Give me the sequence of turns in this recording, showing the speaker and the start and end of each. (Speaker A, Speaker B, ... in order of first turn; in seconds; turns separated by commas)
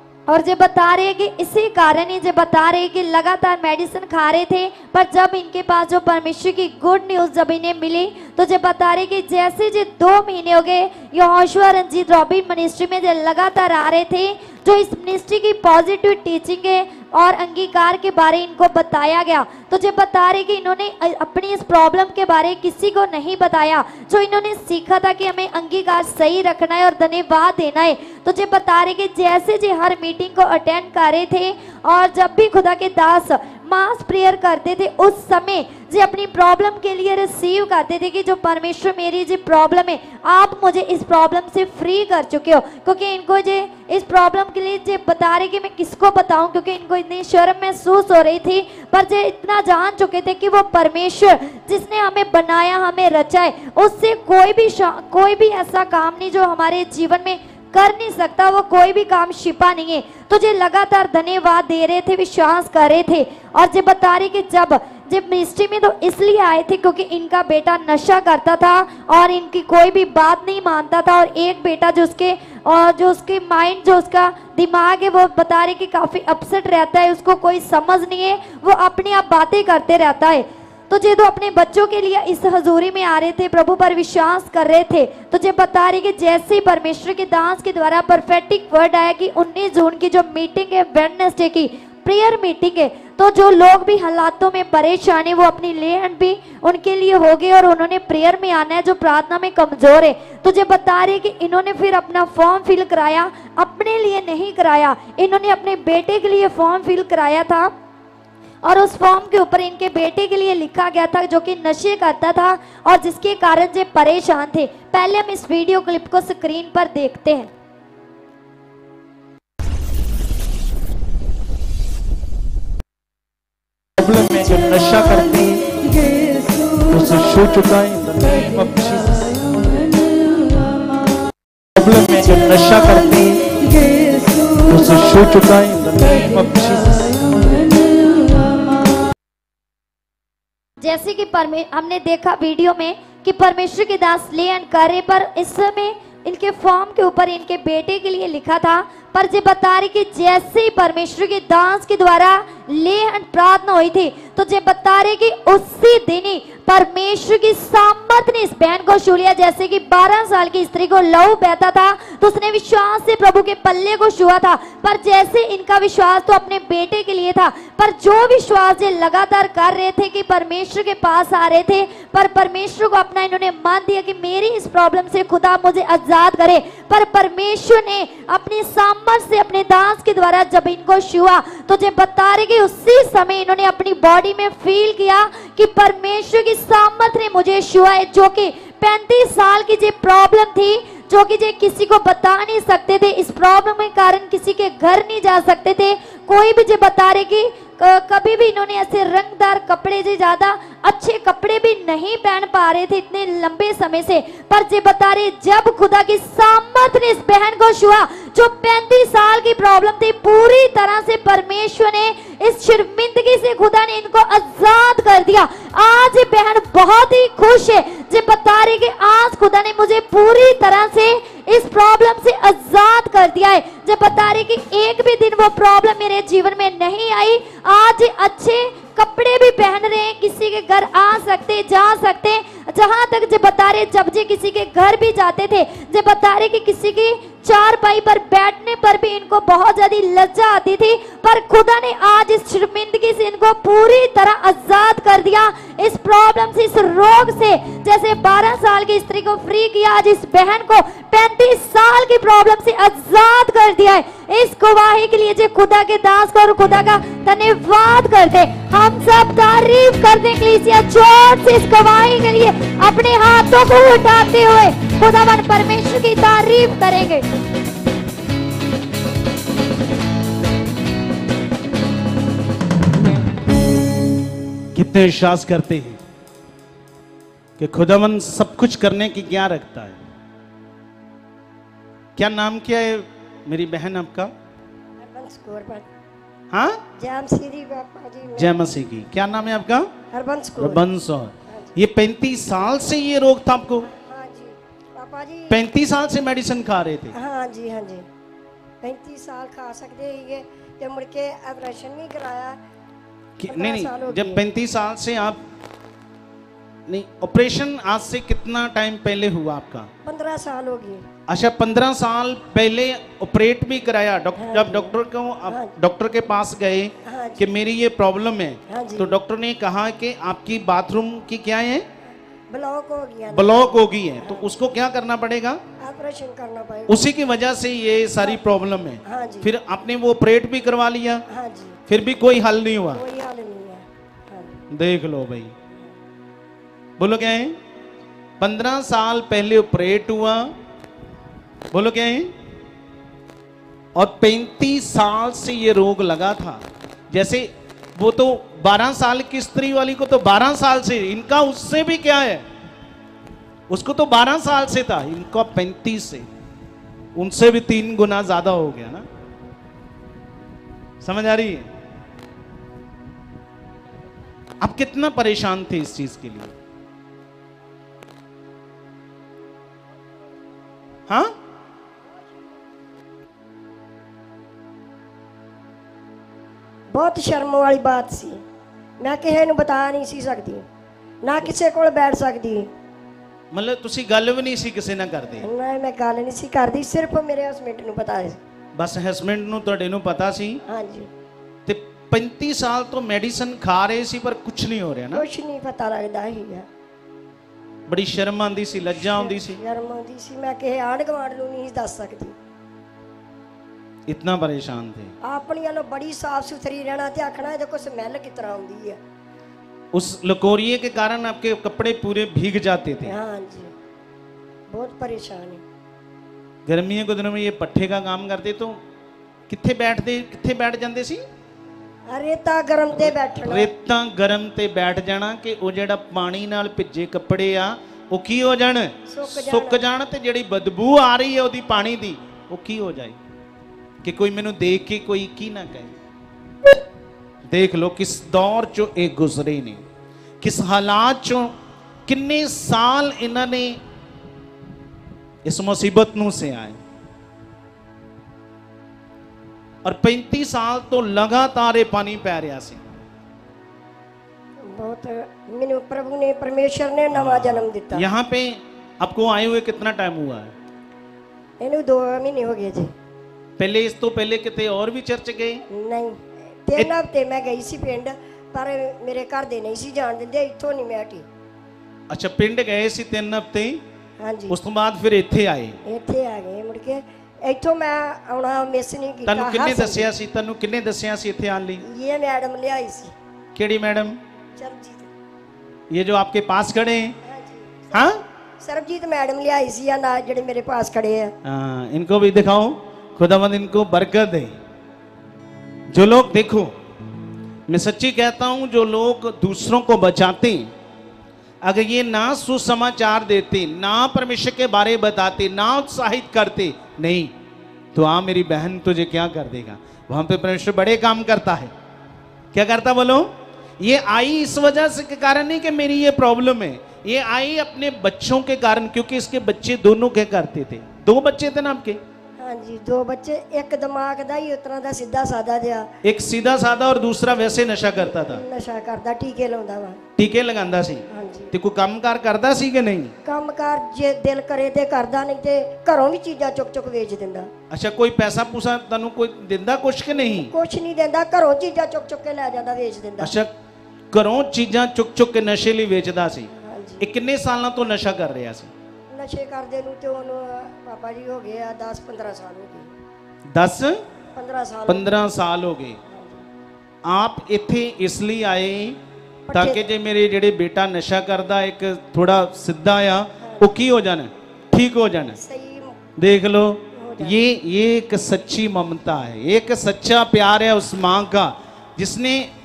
Speaker A: 0.3-107.7, Speaker A: 108.6-117.5, Speaker B: 124.0-125.7, Speaker B: 126.8-129.6, Speaker B: 131.8-133.5, Speaker B: 134.6-137.6, Speaker A: 140.8-267.2, Speaker B: 274.7-276.0, Speaker B: 277.6-280.0, Speaker B: 282.1-284.3, Speaker C: 285.0-285.9, Speaker B: 286.5-286.8, Speaker C: 287.0-288.5, Speaker B: 288.4-289.9, Speaker C: 290.1-290.8, Speaker B: 290.6-293.9, Speaker C: 291.5-291.7, Speaker C: 293.9-295.6, Speaker B: 295.5-297.1, Speaker C: 297.1-298.1, Speaker C: 298.8-302.6, Speaker B: 303.4-305.4, Speaker C: 303.5-304.4, Speaker B: 306.9-309.9, Speaker C: 310.0-311.1, Speaker B: 311.3-321.9, Speaker C: 314.4-314.9, Speaker C: 317.0-317.4, Speaker C: 318.7-319.2, Speaker C: 322.5-324.5, Speaker B: 323.3-325.6, Speaker C: 325.8-327.0, Speaker B: 326.9-331.2, Speaker C: 329.0-329.5, Speaker C: 331.3-331.8, Speaker B: 331.9-333.0, Speaker C: 332.9-334.6, Speaker B: 334.7-335.5, Speaker B: 337.0-337.6, Speaker B: 338.4-340.5, Speaker B: 341.7-342.3, Speaker B: 343.9-352.4, Speaker B: 353.7-356.3, Speaker B: 357.1-359.1, Speaker B: 361.0-361.7, Speaker B: 364.6-366.5, Speaker C: 376.9-378.4, Speaker C: 379.0-380.6, Speaker C: 381.2-382.7, Speaker B: 383.5-385.5, Speaker C: 385.4-388.4, Speaker B: 388.8-390.6, Speaker C: 390.7-391.1, Speaker B: 391.6-395.2, Speaker C: 395.1-396.6, Speaker B: 397.9-399.6, Speaker C: 399.1-402.3, Speaker B: 404.1-405.1, Speaker C: 405.2-409.0, Speaker B: 409.9-413.1, Speaker C: 413.0-413.7, Speaker C: 414.7-415.6, Speaker B: 416.6-418.8, Speaker B: 419.5-421.2, Speaker C: 422.1-423.7, Speaker B: 422.9-433.2, Speaker C: 429.1-429.8, Speaker B: 434.0-435.9, Speaker B: 437.5-439.8, Speaker B: 440.4-441.5, Speaker B: 442.1-443.8, Speaker B: 445.4-446.8, Speaker B: 449.8-452.8, Speaker C: 454.6-458.1, Speaker B: 457.1-460.5, Speaker C: 461.6-462.9, Speaker B: 463.6-465.6, Speaker C: 465.7-471.2, Speaker B: 472.1-473.8, Speaker C: 474.2-474.6, Speaker B: 474.5-475.8, Speaker C: 475.9-480.1, Speaker B: 479.3-481.8, Speaker C: 481.8-483.1, Speaker B: 483.5-484.2, Speaker C: 484.6-485.1, Speaker B: 485.9-487.2, Speaker C: 487.2-488.1, Speaker B: 487.9-488.2, Speaker C: 488.6-491.3, Speaker B: 491.4-494.5, Speaker B: 495.9-496.7, Speaker B: 497.7-500.7, Speaker B: 501.6-507.3, Speaker B: 507.9-511.7, Speaker B: 512.5-522.0, Speaker C: 522.4-525.9, Speaker B: 526.0-528.4, Speaker C: 528.1-530.0, Speaker B: 530.2-533.1, Speaker C: 531.1-531.5, Speaker C: 533.2-537.5, Speaker B: 537.7-540.5, Speaker C: 540.1-543.3, Speaker B: 543.2-543.5, Speaker B: 544.1-546.5, Speaker C: 546.6-547.0, Speaker B: 547.0-548.7, Speaker C: 549.1-552.9, Speaker B: 553.5-554.0, Speaker C: 554.3-555.1, Speaker B: 554.9-556.0, Speaker C: 556.1-556.5, Speaker B: 557.0-559.0, Speaker C: 559.5-559.8, Speaker B: 559.5-565.4, Speaker C: 563.4-563.7, Speaker C: 565.3-565.9, Speaker B: 566.2-572.5, Speaker C: 566.9-567.4